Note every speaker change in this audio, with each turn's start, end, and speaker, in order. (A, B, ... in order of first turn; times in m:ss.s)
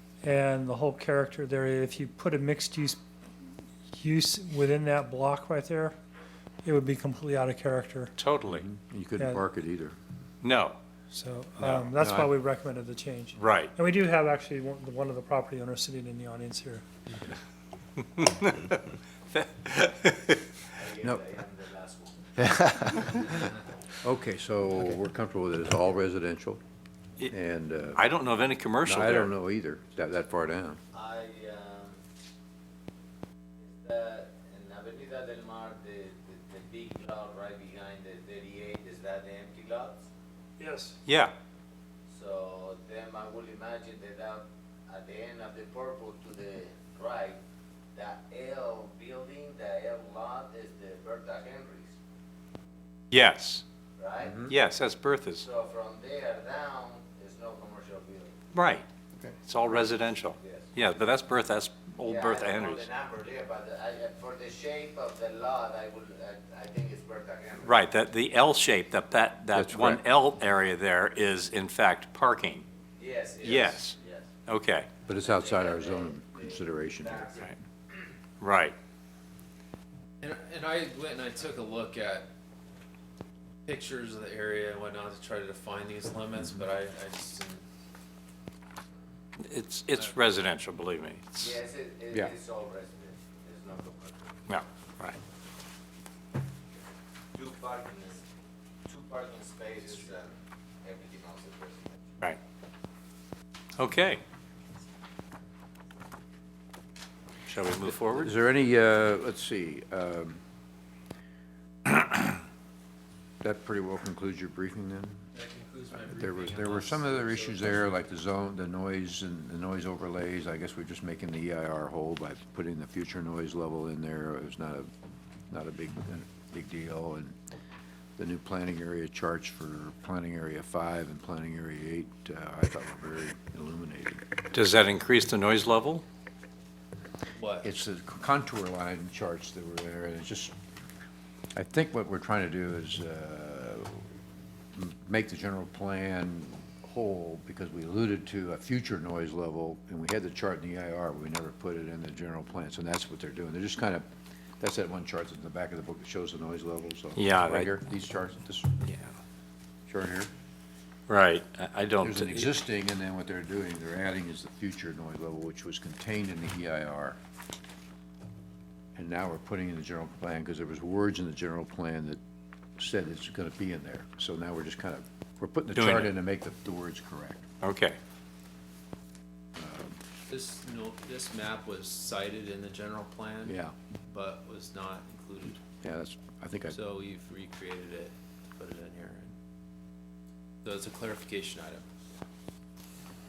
0:00.2-0:03.0 A
0:03.9-0:05.9 A
0:06.6-0:08.1 A
0:08.2-0:08.6 B
0:08.5-0:10.0 C
0:10.4-0:10.8 B
0:11.1-0:16.9 A
0:11.6-0:11.9 B
0:12.0-0:12.3 C
0:13.4-0:13.7 B
0:18.2-0:20.4 B
0:20.8-0:22.3 D
0:22.4-0:23.3 C
0:24.0-0:26.6 C
0:27.3-0:28.0 C
0:28.0-0:29.3 B
0:28.8-0:30.8 C
0:30.9-0:31.9 D
0:33.6-0:40.1 D
0:40.6-0:41.0 A
0:41.0-0:41.3 B
0:42.1-0:47.4 D
0:47.9-0:52.0 D
0:53.1-0:53.6 B
0:54.0-0:54.5 D
0:54.2-0:54.5 C
0:54.5-0:55.5 B
0:55.4-0:58.3 D
0:58.5-0:58.9 B
0:59.4-1:02.9 B
1:00.4-1:00.7 D
1:02.0-1:07.8 D
1:07.6-1:12.7 B
1:09.5-1:10.0 C
1:13.0-1:14.3 D
1:13.4-1:14.0 B
1:14.5-1:14.9 B
1:15.1-1:17.4 C
1:15.1-1:17.5 D
1:18.4-1:18.8 B
1:20.2-1:22.3 E
1:23.7-1:27.6 E
1:29.4-1:31.5 B
1:31.4-1:34.2 D
1:34.5-1:35.2 B
1:37.3-1:38.2 D
1:38.9-1:42.0 D
1:43.8-1:44.2 B
1:47.5-1:48.3 B
1:48.1-1:50.4 C
1:53.4-1:55.2 C
1:55.3-1:57.8 E
1:56.1-2:04.9 C
2:05.5-2:07.4 C
2:08.2-2:14.2 C
2:14.5-2:16.0 B
2:17.4-2:17.7 E
2:17.6-2:20.5 C
2:21.6-2:24.1 C
2:24.7-2:34.1 C
2:34.6-2:38.8 C
2:37.2-2:37.7 B
2:39.9-2:40.3 C
2:41.1-2:42.5 B
2:42.0-2:47.2 C
2:48.9-2:52.2 C
2:52.8-2:57.5 C
2:55.8-2:56.2 B
2:57.6-2:58.0 B
2:59.6-3:00.0 C
3:00.3-3:05.6 E
3:03.4-3:03.7 C
3:05.8-3:06.8 C
3:06.7-3:09.3 E
3:10.6-3:11.8 E